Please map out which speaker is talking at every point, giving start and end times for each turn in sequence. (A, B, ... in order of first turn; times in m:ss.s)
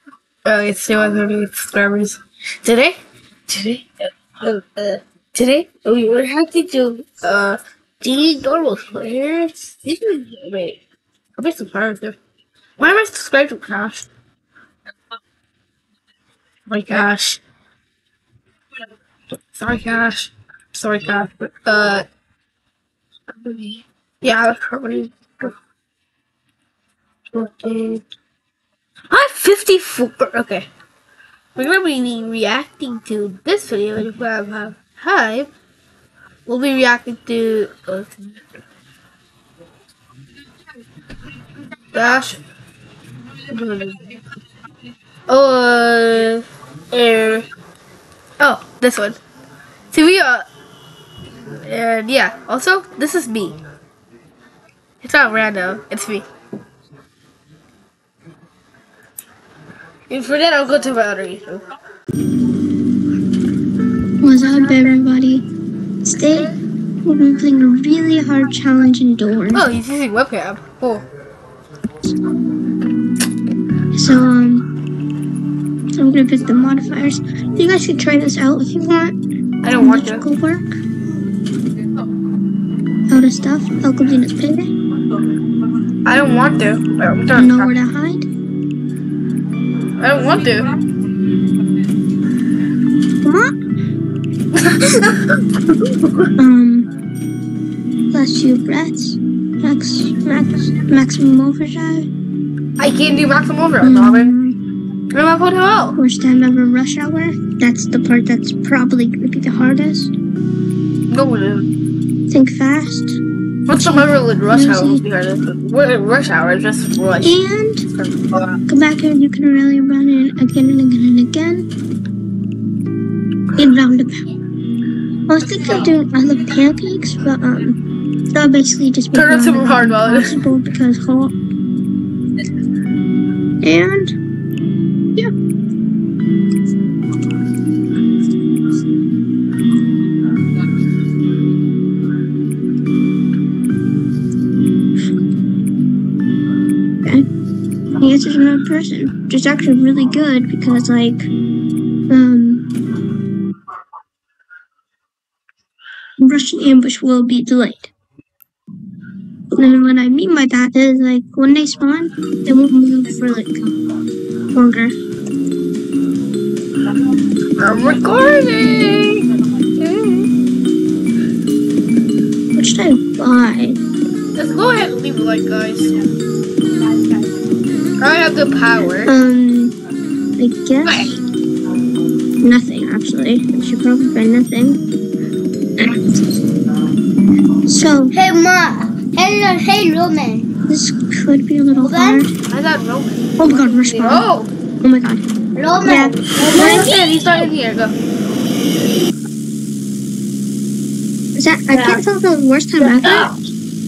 0:00.4-0:03.0 A
0:03.5-0:10.8 A
0:11.4-0:12.2 A
0:12.8-0:14.1 A
0:16.7-0:17.4 A
0:19.5-0:22.0 A
0:23.4-0:25.5 A
0:27.3-0:28.0 A
0:29.1-0:30.7 A
0:31.6-0:35.5 A
0:36.5-0:38.1 A
0:41.9-0:42.4 A
0:43.5-0:44.1 A
0:45.3-0:47.5 A
0:48.4-0:49.2 A
0:49.9-0:50.4 A
0:51.6-0:53.6 A
0:55.0-0:56.2 A
1:00.1-1:01.6 A
1:04.2-1:05.4 B
1:06.0-1:06.5 B
1:07.0-1:09.7 B
1:09.5-1:11.0 A
1:13.9-1:14.6 B
1:15.9-1:19.2 B
1:19.6-1:20.2 A
1:19.8-1:20.8 B
1:23.1-1:24.7 B
1:26.0-1:27.7 A
1:27.3-1:28.3 B
1:30.0-1:30.7 A
1:33.2-1:33.5 B
1:34.5-1:35.4 A
1:36.4-1:36.9 B
1:38.1-1:42.1 B
1:42.8-1:44.3 A
1:43.8-1:44.6 B
1:45.1-1:46.0 A
1:45.9-1:50.1 B
1:51.1-1:51.7 A
1:52.3-1:53.2 B
1:53.7-1:57.4 A
1:53.8-1:55.0 B
1:57.2-1:57.8 B
1:58.0-1:58.6 A
1:58.7-2:01.7 B
2:03.6-2:04.2 B
2:05.3-2:07.8 B
2:05.5-2:05.8 A
2:08.3-2:11.3 B
2:09.1-2:10.4 A
2:13.6-2:14.1 B
2:28.0-2:31.3 B
2:32.1-2:32.6 B
2:36.2-2:37.9 B
2:39.5-2:43.7 B
2:44.5-2:45.0 B
2:47.6-2:49.2 A
2:49.8-2:50.3 A
2:52.5-2:53.8 B
2:54.3-2:56.0 A
2:58.0-2:59.1 A
2:59.0-2:59.7 B
3:00.4-3:01.2 B
3:00.8-3:01.1 A
3:02.4-3:04.8 B
3:05.8-3:06.2 B
3:07.7-3:08.2 B
3:08.1-3:10.5 C
3:10.7-3:12.3 B
3:11.7-3:12.2 C
3:12.5-3:14.5 A
3:13.4-3:14.3 B
3:14.8-3:15.3 B
3:15.5-3:17.0 C
3:15.8-3:16.9 B
3:16.4-3:17.9 A
3:21.4-3:23.3 B
3:21.7-3:22.0 A
3:22.8-3:23.3 A